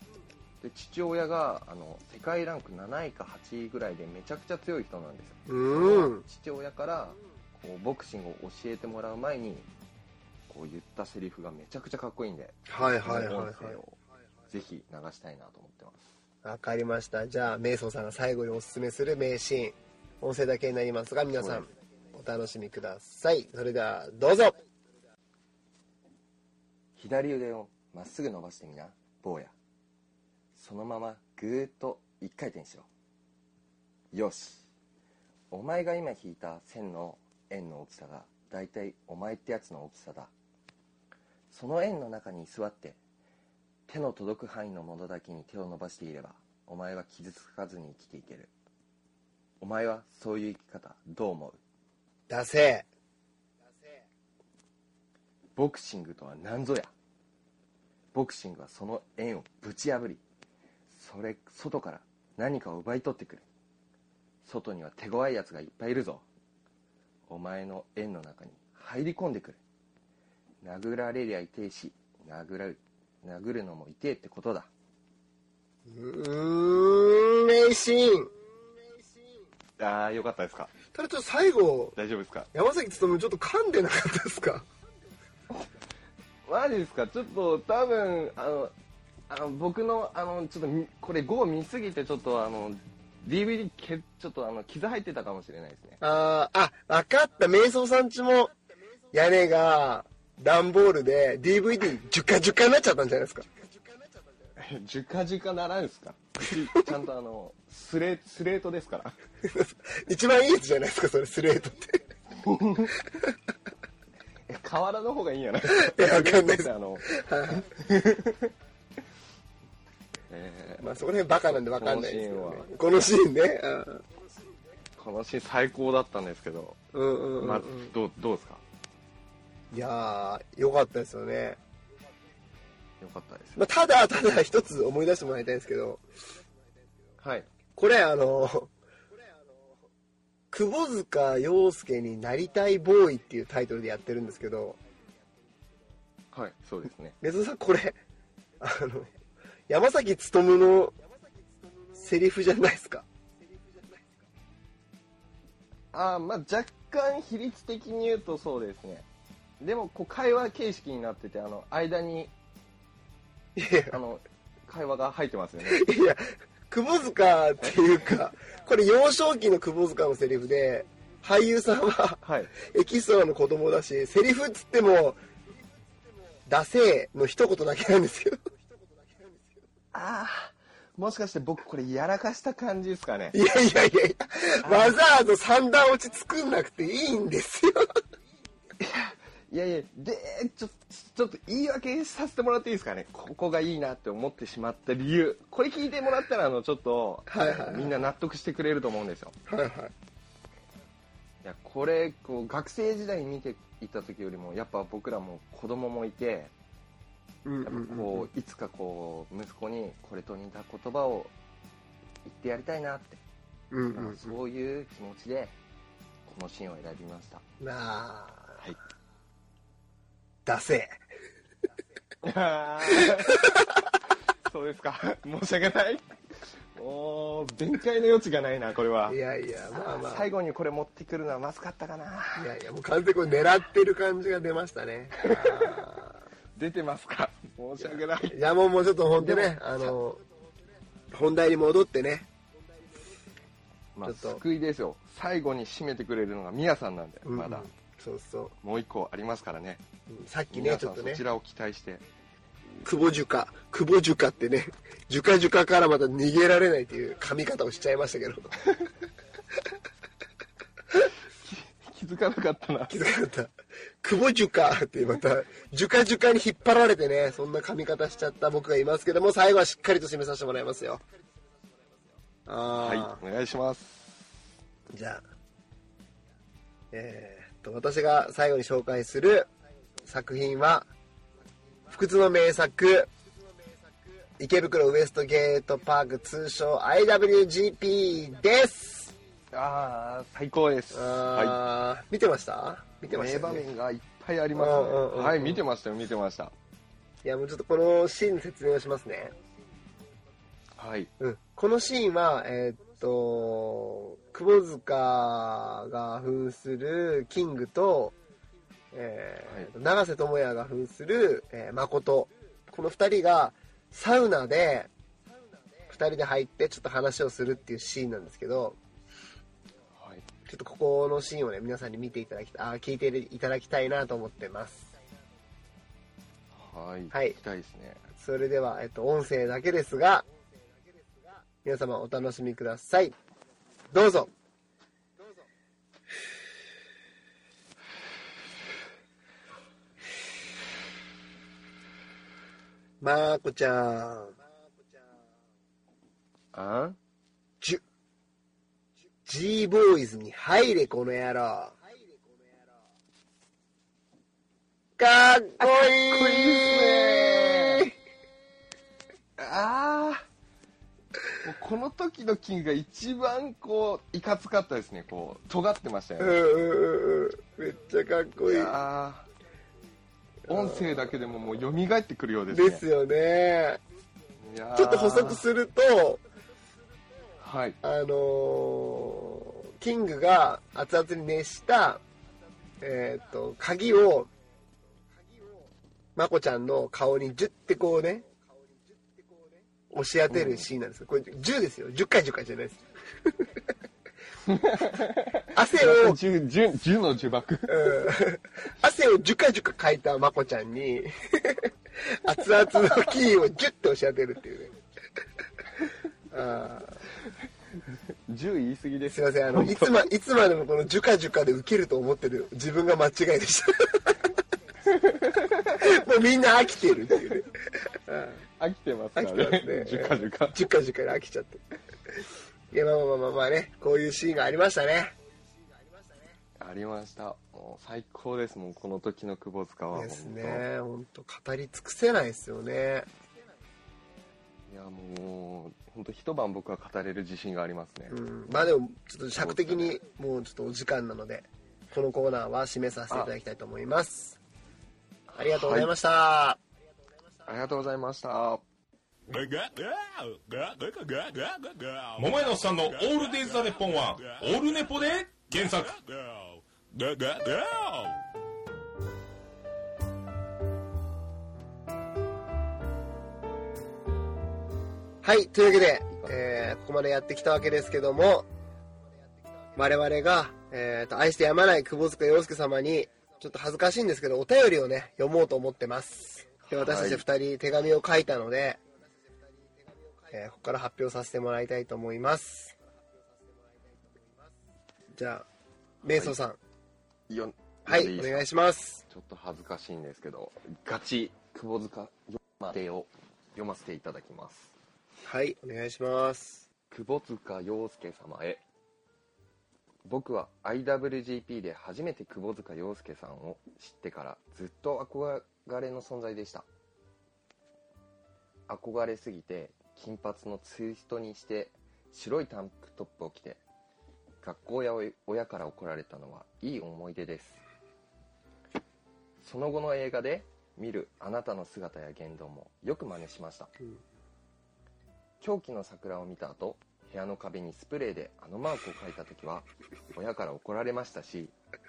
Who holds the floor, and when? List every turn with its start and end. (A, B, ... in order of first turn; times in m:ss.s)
0:00.6-0:09.7 A
0:05.5-0:06.2 B
0:10.5-0:14.0 A
0:12.7-0:13.8 B
0:14.5-0:16.0 A
0:16.4-0:24.6 B
0:21.4-0:21.6 A
0:27.0-0:29.5 A
0:30.5-0:32.9 A
0:34.1-0:34.6 A
0:35.5-0:40.3 A
0:41.5-0:43.0 A
0:43.9-0:48.5 A
0:49.6-0:51.6 A
0:52.3-0:52.9 B
0:55.6-0:56.9 A
0:58.1-1:00.2 A
1:00.9-1:03.4 A
1:04.4-1:06.2 A
1:07.3-1:09.6 A
1:10.6-1:14.7 A
1:15.9-1:18.3 B
1:19.8-1:20.7 A
1:20.9-1:22.0 B
1:22.0-1:22.5 A
1:22.5-1:24.6 B
1:26.4-1:28.7 A
1:29.3-1:36.0 A
1:36.0-1:38.5 B
1:39.1-1:43.5 B
1:44.6-1:49.2 A
1:49.4-1:52.0 B
1:52.3-1:53.0 A
1:54.5-1:58.5 A
1:55.7-1:57.6 B
2:00.3-2:02.7 A
2:00.8-2:04.0 B
2:05.0-2:06.8 A
2:06.9-2:07.9 B
2:07.4-2:08.6 A
2:09.7-2:11.6 B
2:13.0-2:13.6 A
2:13.6-2:16.0 B
2:17.2-2:17.5 A
2:17.8-2:18.7 B
2:20.5-2:24.8 B
2:26.3-2:27.2 A
2:27.2-2:28.0 B
2:28.6-2:29.1 B
2:29.7-2:31.0 B
2:31.9-2:33.0 B
2:35.9-2:39.1 A
2:39.6-2:42.3 A
2:43.6-2:44.0 B
2:43.9-2:45.9 A
2:45.6-2:55.2 B
2:52.2-2:52.5 A
2:56.4-2:58.5 B
2:59.9-3:03.4 A
3:03.3-3:07.9 B
3:04.6-3:05.0 A
3:08.8-3:19.4 A
3:17.3-3:17.9 B
3:19.5-3:19.9 B
3:21.4-3:26.5 A
3:27.4-3:28.3 B
3:27.6-3:31.3 A
3:32.2-3:33.2 A
3:33.7-3:34.4 B
3:33.9-3:35.5 A
3:36.2-3:37.4 A
3:37.6-3:38.6 B
3:40.4-3:40.9 B
3:42.2-3:43.5 A
3:42.9-3:43.7 B
3:44.4-3:46.0 A
3:46.7-3:49.2 A
3:49.1-3:50.3 B
3:49.7-3:52.5 A
3:52.4-3:56.2 B
3:55.2-3:55.9 A
3:56.6-3:58.4 A
3:57.8-4:00.2 B
3:59.2-4:00.0 A
4:01.1-4:02.3 B
4:03.9-4:07.7 A
4:04.0-4:04.4 B
4:07.2-4:08.5 B
4:08.6-4:09.8 A
4:10.1-4:11.2 B
4:10.5-4:12.0 A
4:12.8-4:18.5 B
4:21.3-4:23.0 A
4:22.9-4:31.0 B
4:32.4-4:33.2 B
4:32.7-4:34.0 A
4:34.9-4:35.2 B
4:36.9-4:39.5 B
4:40.0-4:40.9 B
4:41.9-4:43.1 B
4:44.4-4:49.1 B
4:49.5-4:51.6 A
4:50.9-4:53.6 B
4:53.1-4:56.5 A
4:54.5-4:55.6 B
4:57.2-4:59.3 B
5:00.8-5:01.1 A
5:01.2-5:08.2 B
5:08.9-5:14.9 B
5:15.9-5:18.8 B
5:19.9-5:20.3 A
5:20.4-5:24.9 B
5:26.5-5:28.1 A
5:27.1-5:27.4 B
5:28.2-5:30.3 B
5:31.6-5:33.2 B
5:33.9-5:34.3 B
5:43.0-5:44.4 B
5:46.5-5:47.0 A
5:49.2-5:51.8 B
5:55.0-5:57.9 B
5:55.6-5:57.9 A
5:59.4-6:00.2 A
6:01.4-6:06.4 A
6:06.2-6:08.7 B
6:08.4-6:09.3 A
6:10.5-6:12.8 A
6:10.5-6:11.0 B
6:12.5-6:13.8 B
6:14.4-6:15.4 A
6:14.7-6:16.2 B
6:17.4-6:17.8 A
6:17.8-6:22.0 B
6:22.8-6:24.3 B
6:26.2-6:28.2 B
6:29.9-6:33.6 B
6:30.3-6:30.7 A
6:34.4-6:38.1 A
6:35.5-6:36.2 B
6:37.7-6:44.7 B
6:46.3-6:47.0 B
6:47.9-6:50.0 A
6:49.1-6:54.3 B
6:54.8-6:56.0 A
6:55.8-6:58.4 B
6:58.6-7:00.6 A
6:59.2-7:01.6 B
7:02.7-7:05.1 B
7:06.6-7:10.6 A
7:09.9-7:13.1 B
7:14.7-7:18.7 A
7:18.1-7:24.4 B
7:19.4-7:20.0 A
7:25.3-7:25.9 A
7:25.4-7:26.6 B
7:27.5-7:28.6 A
7:29.3-7:38.2 C
7:45.2-7:48.5 B
7:49.8-7:58.8 B
7:56.7-7:57.2 A
8:00.3-8:02.7 B
8:05.1-8:05.4 B
8:06.0-8:06.4 A
8:06.0-8:06.6 B
8:07.3-8:08.4 A
8:07.9-8:09.0 B
8:09.1-8:14.7 A
8:15.2-8:16.6 B
8:16.9-8:18.6 A
8:20.0-8:26.7 A
8:28.7-8:33.6 A
8:34.4-8:37.6 A
8:39.4-8:43.7 A
8:45.4-8:51.5 A